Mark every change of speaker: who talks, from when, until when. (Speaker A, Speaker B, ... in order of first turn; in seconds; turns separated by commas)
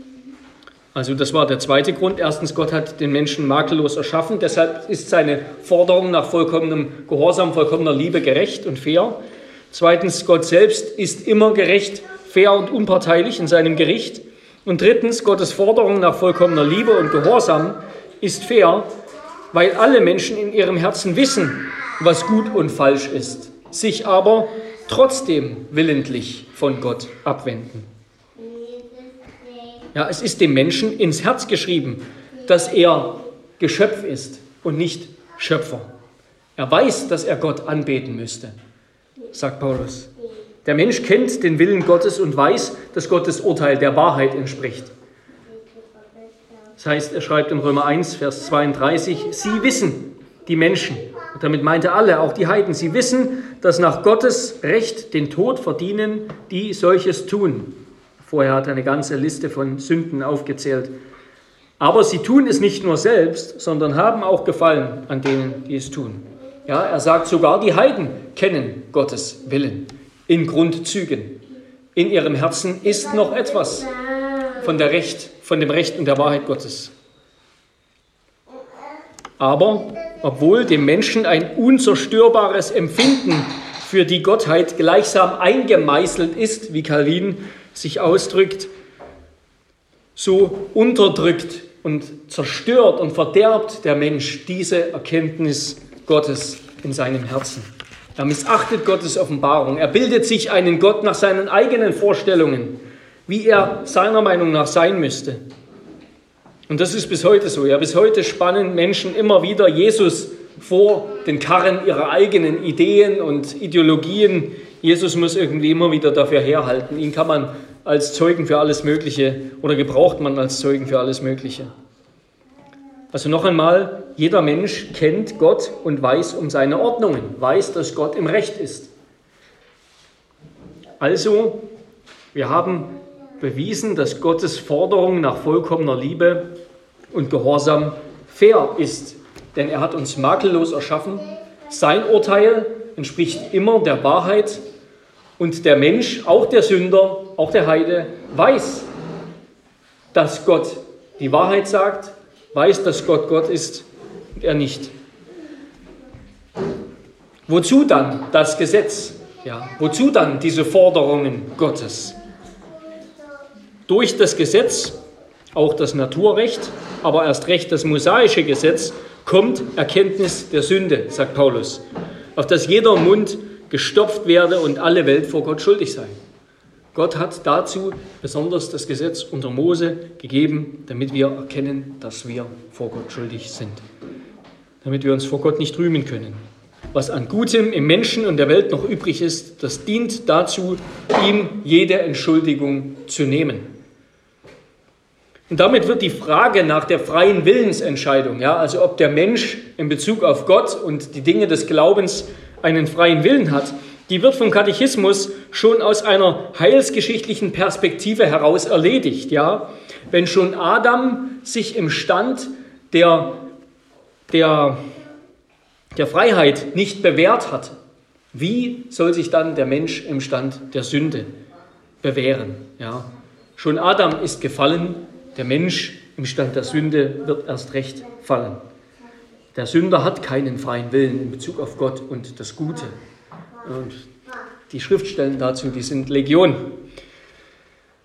Speaker A: 0.9-9.2, Speaker A: 9.7-18.9, Speaker A: 19.5-27.9, Speaker A: 29.9-35.9, Speaker A: 36.6-38.5, Speaker A: 39.3-40.1, Speaker A: 40.6-44.9, Speaker A: 46.8-60.9, Speaker A: 61.8-71.4, Speaker A: 72.0-73.9, Speaker A: 74.6-76.9, Speaker A: 79.4-88.7, Speaker A: 90.2-105.4, Speaker A: 106.7-121.7, Speaker A: 123.1-128.9, Speaker A: 131.0-131.7, Speaker A: 132.3-136.5, Speaker A: 137.1-144.6, Speaker A: 145.4-148.9, Speaker A: 150.1-153.9, Speaker A: 154.4-154.9, Speaker A: 157.5-162.2, Speaker A: 163.9-165.0, Speaker A: 165.6-171.8, Speaker A: 172.4-176.1, Speaker A: 176.9-183.8, Speaker A: 184.8-186.4, Speaker A: 186.9-193.7, Speaker A: 195.5-213.4, Speaker A: 214.3-214.8, Speaker A: 215.9-217.8, Speaker A: 218.3-221.3, Speaker A: 222.0-228.6, Speaker A: 229.6-233.0, Speaker A: 233.6-234.1, Speaker A: 234.7-236.7